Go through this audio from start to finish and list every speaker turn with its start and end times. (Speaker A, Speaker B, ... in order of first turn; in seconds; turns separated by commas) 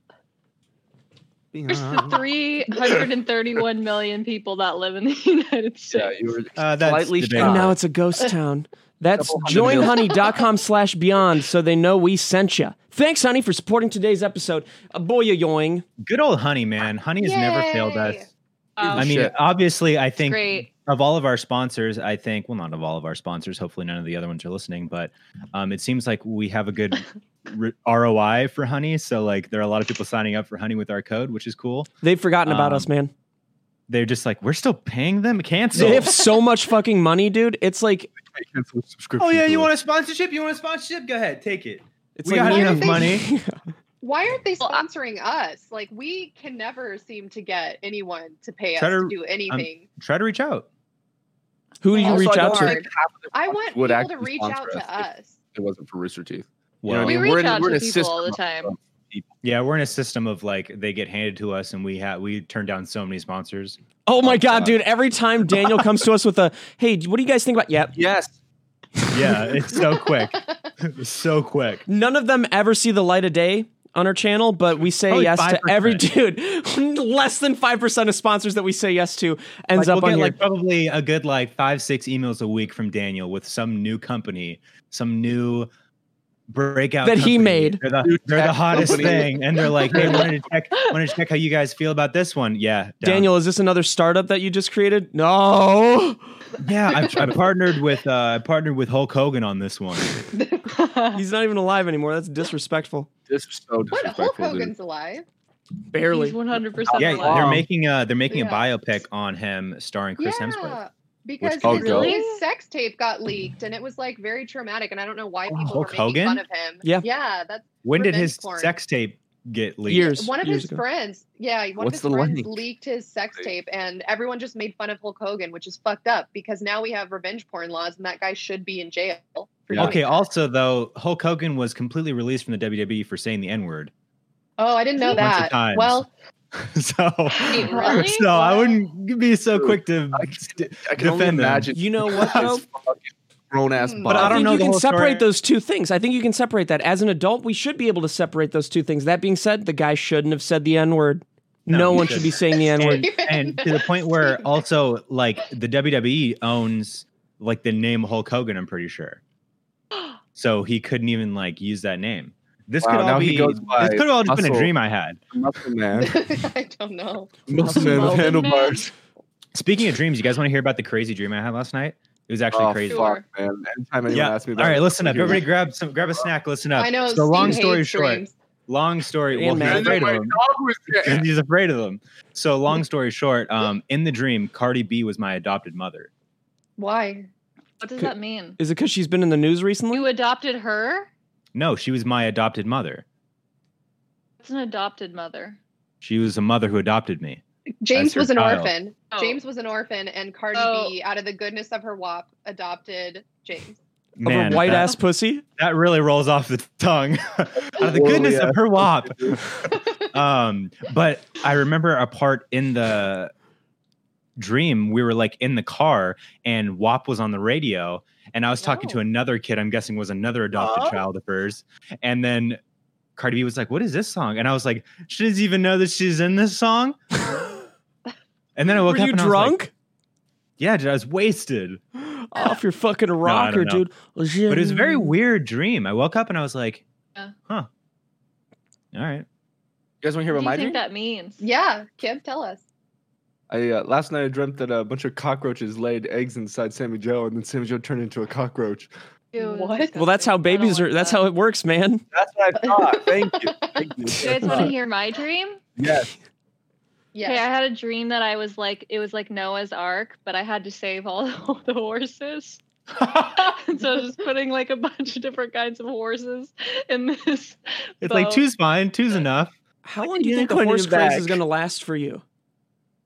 Speaker A: 1.5-2.2, Speaker B: 1.7-6.1, Speaker A: 5.9-7.7, Speaker C: 6.6-7.7, Speaker D: 7.3-15.8, Speaker A: 9.1-10.1, Speaker C: 16.0-18.3, Speaker E: 17.2-18.3, Speaker B: 18.8-19.1, Speaker A: 18.8-19.3, Speaker C: 18.9-31.9, Speaker B: 20.2-20.7, Speaker D: 32.0-33.1, Speaker C: 32.4-32.9, Speaker C: 33.9-36.2, Speaker D: 35.7-38.1, Speaker E: 36.1-36.4, Speaker A: 38.2-39.7, Speaker C: 39.2-43.3, Speaker D: 42.2-43.6, Speaker E: 42.4-43.2, Speaker E: 44.0-49.9, Speaker C: 48.8-50.7, Speaker D: 51.8-52.8, Speaker E: 51.9-55.4, Speaker A: 52.0-59.3, Speaker C: 56.8-57.4, Speaker B: 57.0-58.7, Speaker C: 59.4-64.8, Speaker D: 64.0-67.9, Speaker A: 67.9-68.3, Speaker C: 69.1-71.8, Speaker E: 69.8-70.6, Speaker D: 71.9-80.4, Speaker C: 75.1-76.0, Speaker C: 79.7-85.7, Speaker C: 86.5-93.3, Speaker D: 87.0-87.8, Speaker A: 88.0-90.3, Speaker D: 93.0-96.2, Speaker C: 96.6-100.2, Speaker E: 96.9-97.4, Speaker E: 100.3-101.2, Speaker D: 101.1-103.1, Speaker A: 103.3-104.7, Speaker E: 103.9-105.2, Speaker D: 105.9-106.4, Speaker B: 106.1-107.5, Speaker A: 106.9-107.6, Speaker C: 107.0-110.8, Speaker E: 108.3-108.7, Speaker E: 110.2-118.7, Speaker C: 111.4-112.1, Speaker A: 111.6-112.2, Speaker B: 111.8-112.4, Speaker C: 115.5-116.4, Speaker C: 117.8-120.1, Speaker D: 119.9-120.8, Speaker E: 119.9-130.2, Speaker A: 121.8-122.6, Speaker C: 129.7-133.9, Speaker E: 134.6-136.1, Speaker C: 135.1-142.5, Speaker B: 137.4-138.4, Speaker E: 137.4-138.7, Speaker A: 139.6-144.5, Speaker D: 141.7-142.6, Speaker E: 143.8-144.4, Speaker C: 144.1-145.2, Speaker D: 144.1-153.1, Speaker C: 151.7-159.2, Speaker E: 152.7-154.6, Speaker C: 160.3-165.2, Speaker A: 162.8-164.7, Speaker A: 165.3-166.2, Speaker E: 166.0-167.4, Speaker A: 167.5-168.9, Speaker B: 167.6-168.8, Speaker C: 169.5-173.1, Speaker A: 172.5-175.4, Speaker B: 172.9-173.2, Speaker C: 174.1-180.3, Speaker E: 176.8-178.3, Speaker D: 179.3-180.0, Speaker A: 179.6-181.3, Speaker C: 181.0-186.1, Speaker E: 186.8-187.3, Speaker B: 187.8-188.6, Speaker D: 188.0-190.1, Speaker B: 189.9-191.1, Speaker C: 191.5-193.0, Speaker B: 194.4-195.6, Speaker C: 196.0-197.4, Speaker E: 197.8-203.8, Speaker C: 197.9-198.7, Speaker B: 199.1-199.4, Speaker B: 200.5-200.9, Speaker C: 204.2-205.0, Speaker D: 204.2-205.4, Speaker C: 205.6-213.3, Speaker A: 207.7-209.5, Speaker C: 214.4-222.6, Speaker E: 218.6-219.0, Speaker C: 223.2-227.4, Speaker C: 228.6-229.6, Speaker D: 228.8-229.7, Speaker C: 230.6-231.8, Speaker D: 232.0-235.1, Speaker C: 233.2-233.8, Speaker C: 234.5-236.8, Speaker C: 238.9-239.2, Speaker A: 240.0-240.8, Speaker B: 240.3-241.4, Speaker E: 241.4-242.6, Speaker A: 243.5-248.9, Speaker B: 249.3-251.2, Speaker E: 249.4-250.0, Speaker D: 249.9-252.0, Speaker A: 252.1-254.7, Speaker E: 252.6-253.9, Speaker B: 254.2-255.6, Speaker A: 255.8-256.1, Speaker E: 257.1-257.4, Speaker B: 257.2-268.4, Speaker C: 263.0-263.5, Speaker C: 268.0-269.5, Speaker D: 269.8-272.2, Speaker A: 270.0-271.4